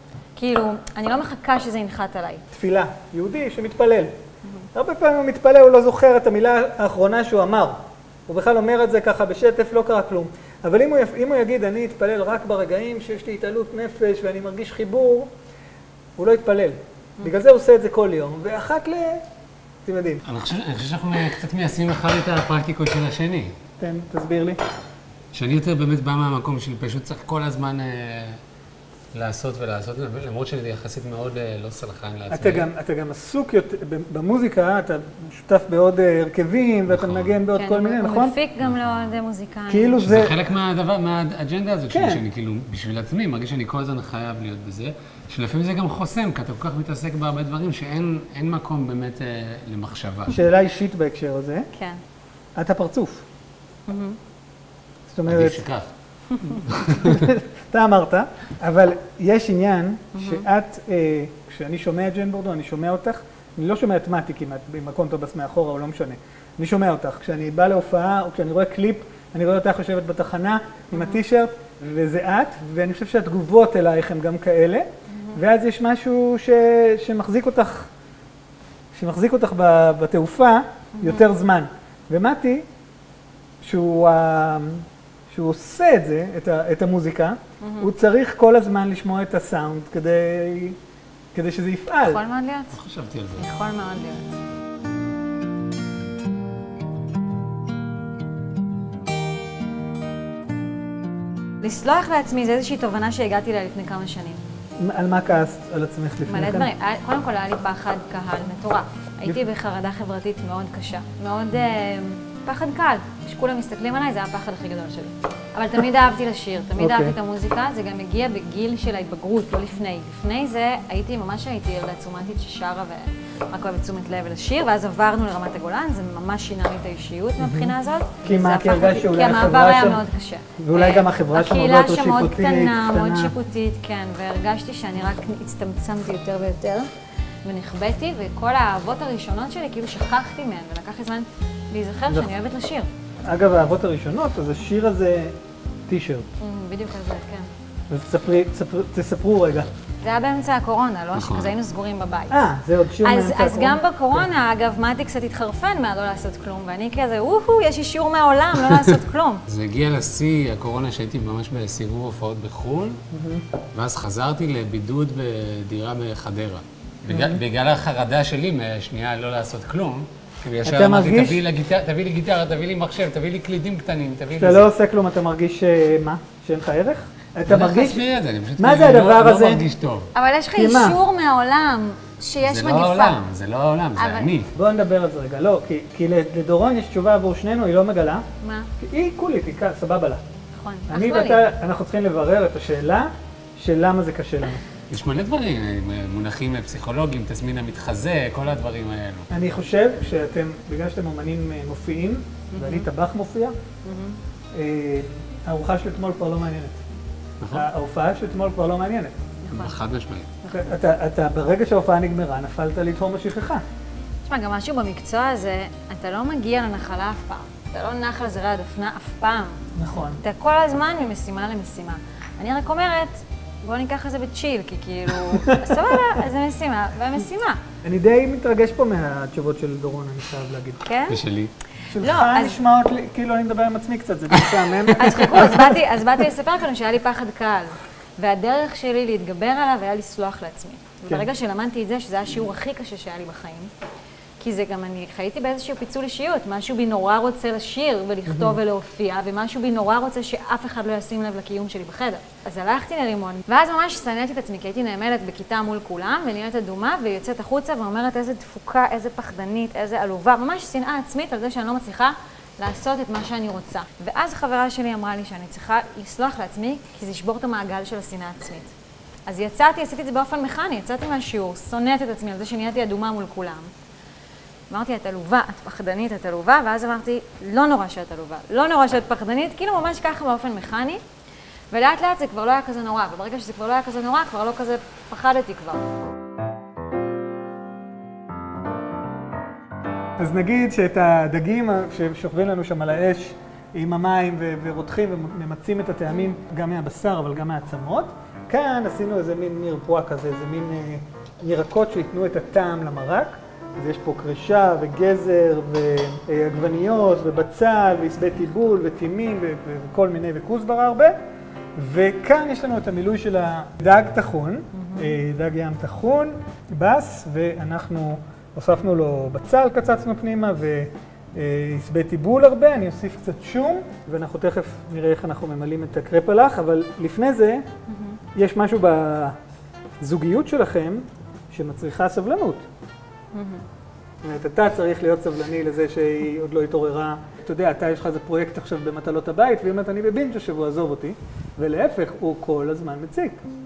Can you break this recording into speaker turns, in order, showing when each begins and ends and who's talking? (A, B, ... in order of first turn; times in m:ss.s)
0:00.4-0:02.4 A
0:02.5-0:04.1 B
0:04.8-0:15.3 B
0:16.2-0:19.2 B
0:19.8-0:20.2 B
0:20.2-0:23.5 C
0:23.8-0:24.6 B
0:25.3-0:28.4 C
0:29.1-0:32.7 C
0:32.3-0:38.4 B
0:36.9-0:37.4 C
0:37.5-0:40.0 A
0:38.6-0:39.1 C
0:39.7-0:40.4 B
0:40.0-0:50.4 C
0:41.9-0:42.2 B
0:50.3-0:51.7 B
0:51.7-0:52.0 A
0:52.6-0:53.2 B
0:53.9-0:54.2 A
0:55.1-0:55.6 B
0:55.3-0:55.9 C
0:56.3-0:56.6 A
0:56.6-0:57.3 C
0:56.8-1:17.9 B
1:00.1-1:00.5 A
1:10.9-1:11.2 A
1:15.1-1:15.4 A
1:18.9-1:22.6 B
1:21.0-1:21.3 A
1:23.6-1:30.8 B
1:27.6-1:27.9 A
1:31.3-1:32.2 B
1:32.0-1:32.8 A
1:32.7-1:33.5 C
1:33.4-1:34.4 A
1:41.6-1:44.4 A
1:44.8-1:46.7 B
1:46.3-2:16.9 A
1:56.8-1:57.2 B
2:07.4-2:10.0 B
2:10.6-2:13.4 B
2:17.4-2:22.9 A
2:23.2-2:25.4 B
2:25.9-2:26.3 B
2:26.4-2:27.5 A
2:27.9-2:29.7 B
2:30.0-2:32.4 A
2:31.2-2:31.6 C
2:32.3-2:34.3 B
2:33.0-2:39.4 A
2:39.5-2:43.0 C
2:43.1-2:43.4 B
2:43.7-2:54.7 C
2:47.1-2:47.4 B
2:50.6-2:51.4 B
2:54.4-2:58.0 B
2:57.5-3:00.1 C
2:58.6-2:59.7 B
3:00.1-3:03.2 A
3:00.5-3:01.0 B
3:02.4-3:04.5 C
3:04.0-3:04.3 A
3:04.6-3:08.2 B
3:08.4-3:08.7 A
3:08.8-3:10.2 B
3:10.5-3:11.4 A
3:10.9-3:14.6 B
3:14.9-3:19.3 C
3:19.3-3:23.5 B
3:22.5-3:22.9 A
3:23.8-3:24.2 A
3:24.5-3:26.8 B
3:27.4-3:27.7 C
3:27.5-3:29.2 B
3:29.4-3:29.8 A
3:29.5-3:30.3 C
3:30.4-3:30.7 A
3:30.5-3:33.6 B
3:34.3-3:39.6 A
3:39.8-3:40.2 B
3:40.2-3:47.6 A
3:47.8-3:50.8 B
3:50.8-3:51.2 A
3:51.1-3:51.5 C
3:51.9-3:56.2 B
3:51.9-3:52.6 A
3:55.0-4:03.7 A
4:04.4-4:28.7 A
4:08.3-4:08.6 B
4:29.3-4:33.7 A
4:34.7-4:41.0 A
4:41.7-4:45.8 A
4:50.2-5:11.2 B
5:11.8-5:27.6 B
5:14.8-5:15.2 A
5:27.9-5:28.2 A
5:28.4-5:29.4 B
5:30.0-5:32.6 B
5:33.3-5:33.6 A
5:34.2-5:43.4 B